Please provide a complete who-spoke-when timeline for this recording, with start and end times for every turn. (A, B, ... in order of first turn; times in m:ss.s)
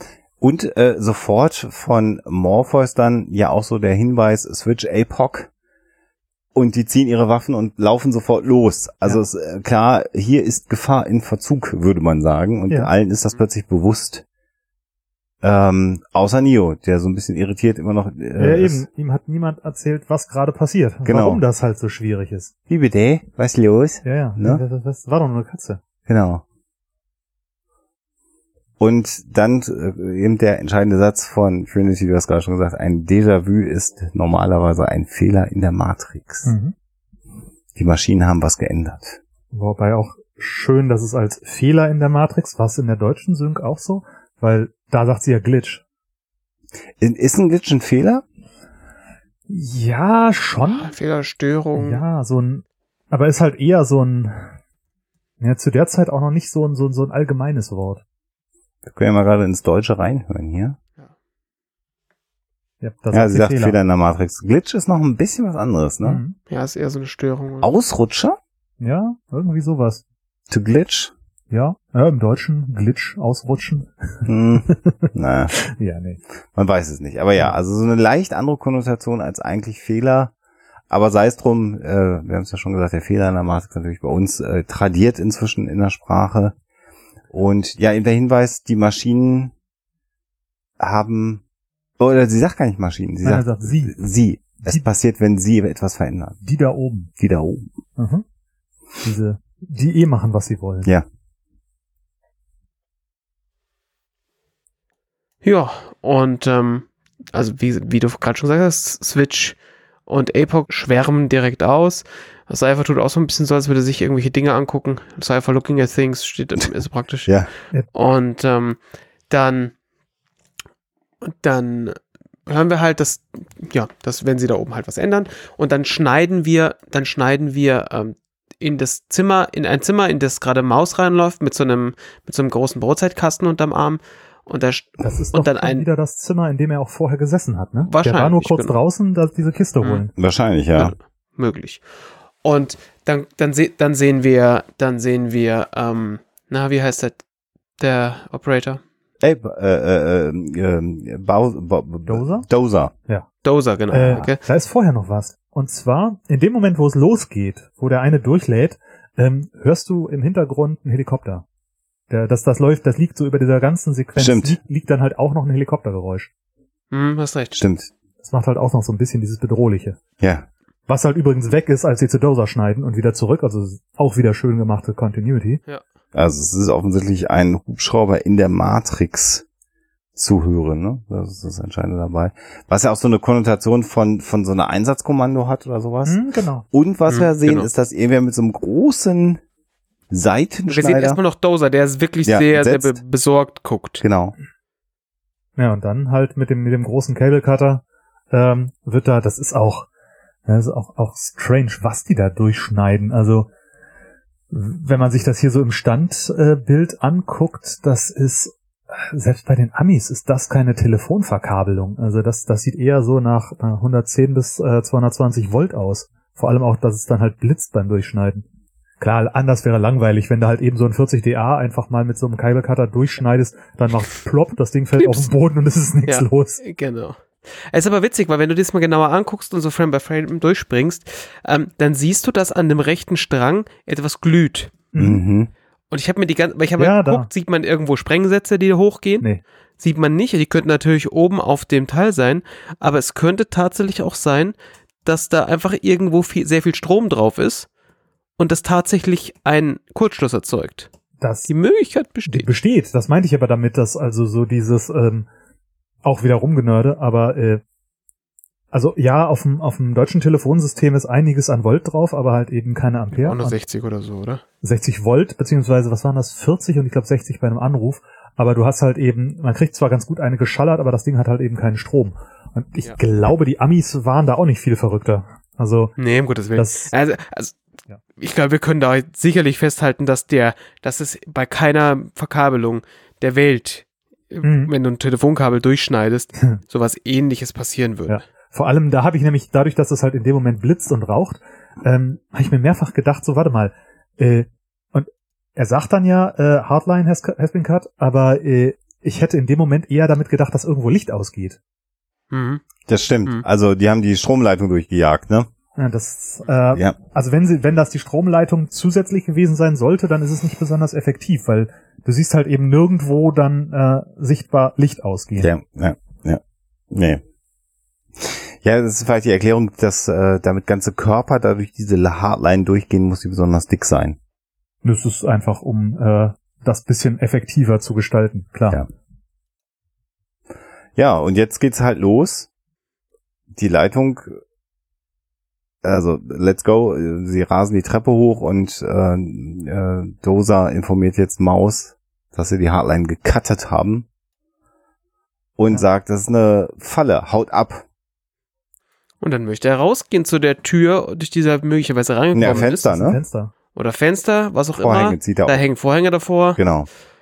0:00.4-0:05.5 A
0:06.5-0:14.2 A
0:15.4-0:18.8 A
0:18.4-0:22.5 B
0:21.0-0:21.4 A
0:22.7-0:24.6 A
0:24.0-0:25.8 B
0:26.0-0:26.4 A
0:28.8-0:36.5 A
0:36.4-0:36.7 B
0:37.7-0:39.2 A
0:39.5-0:45.8 B
0:47.0-0:48.2 A
0:49.5-0:50.9 B
0:50.6-0:52.0 C
0:51.8-0:54.5 B
0:55.4-0:58.0 B
0:58.8-1:00.8 A
1:02.8-1:03.8 B
1:03.1-1:06.2 A
1:06.0-1:06.4 B
1:06.5-1:07.7 C
1:07.6-1:08.4 A
1:08.8-1:10.0 B
1:10.5-1:11.1 A
1:11.5-1:16.2 B
1:14.2-1:15.5 A
1:16.5-1:20.3 A
1:20.9-1:26.5 A
1:27.3-1:29.5 A
1:30.8-1:31.4 A
1:32.0-1:36.4 A
1:33.2-1:34.0 B
1:36.4-1:37.1 B
1:37.2-1:37.7 A
1:38.0-1:38.2 B
1:39.0-1:40.9 B
1:45.4-1:57.4 C
1:57.9-1:58.8 C
1:59.3-1:59.7 C
2:01.2-2:15.8 C
2:15.0-2:20.1 B
2:17.9-2:18.7 C
2:19.8-2:20.0 C
2:20.1-2:20.9 A
2:20.7-2:21.8 C
2:22.4-2:27.2 C
2:27.8-2:28.8 C
2:29.2-2:32.9 A
2:32.1-2:32.4 B
2:33.4-2:34.4 C
2:33.9-2:41.4 B
2:42.1-2:46.3 B
2:44.2-2:44.6 A
2:46.9-2:47.6 C
2:47.6-2:47.9 A
2:48.2-2:50.0 B
2:50.2-2:50.4 A
2:50.9-2:55.6 B
2:56.1-2:59.4 A
3:00.2-3:09.4 A
3:06.0-3:06.6 B
3:07.1-3:07.7 C
3:10.1-3:11.2 A
3:10.7-3:14.0 C
3:12.2-3:13.0 A
3:14.0-3:14.3 A
3:15.6-3:19.9 B
3:20.4-3:23.5 B
3:24.5-3:38.4 B
3:39.0-3:46.6 B
3:45.0-3:45.3 C
3:46.1-3:54.7 C
3:54.9-3:55.2 B
3:55.0-3:55.5 A
3:55.9-3:59.2 C
3:56.8-3:57.3 B
3:59.8-4:07.7 C
4:08.4-4:10.9 C
4:11.2-4:11.5 B
4:11.5-4:12.5 C
4:12.3-4:15.3 B
4:16.0-4:17.6 B
4:18.7-4:23.6 B
4:23.1-4:24.4 C
4:24.6-4:36.0 B
4:36.0-4:37.6 C
4:36.6-4:36.9 B
4:38.2-4:48.2 C
4:44.4-4:44.7 B
4:48.1-5:01.6 B
5:02.3-5:02.6 C
5:02.9-5:05.5 A
5:05.8-5:15.5 B
5:15.4-5:17.2 A
5:18.2-5:24.2 A
5:24.8-5:28.8 B
5:31.0-5:32.5 A
5:33.5-5:34.4 A
5:35.8-5:44.0 A
5:45.6-5:47.8 A
5:49.2-5:53.0 C
5:52.3-5:53.2 A
5:52.9-5:53.5 B
5:53.7-5:56.6 C
5:54.8-5:55.6 A
5:56.6-5:56.9 A